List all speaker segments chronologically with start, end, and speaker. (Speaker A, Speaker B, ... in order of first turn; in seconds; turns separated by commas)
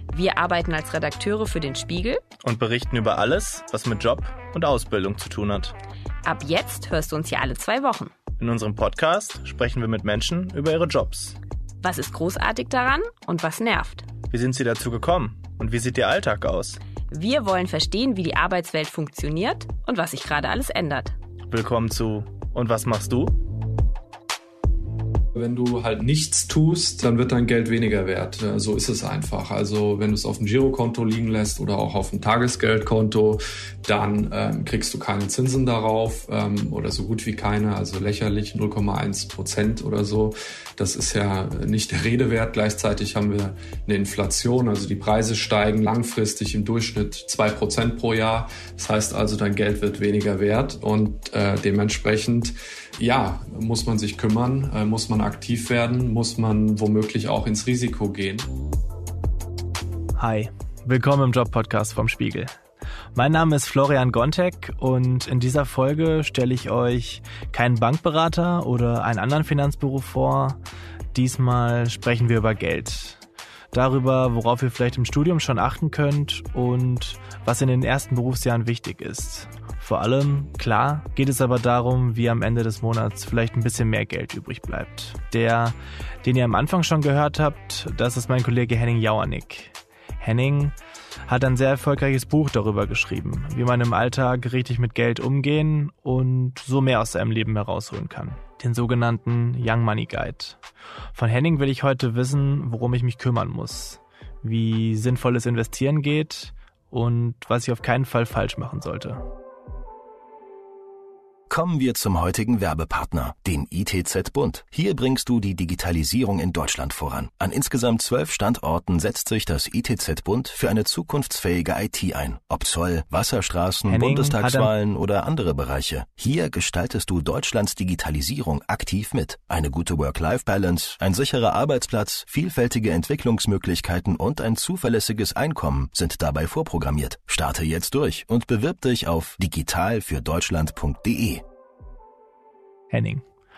Speaker A: 0.1-2.2, Speaker B: 2.4-5.7, Speaker A: 6.2-8.1, Speaker B: 8.4-11.4, Speaker A: 11.8-14.1, Speaker B: 14.3-16.8, Speaker A: 17.1-21.1, Speaker B: 21.5-23.4, Speaker C: 25.3-58.5, Speaker B: 60.2-62.5, Speaker B: 63.1-70.6, Speaker B: 71.1-73.2, Speaker B: 73.7-90.8, Speaker B: 91.3-100.6, Speaker B: 101.2-109.2, Speaker D: 111.5-141.4, Speaker B: 123.9-124.7, Speaker B: 142.9-143.2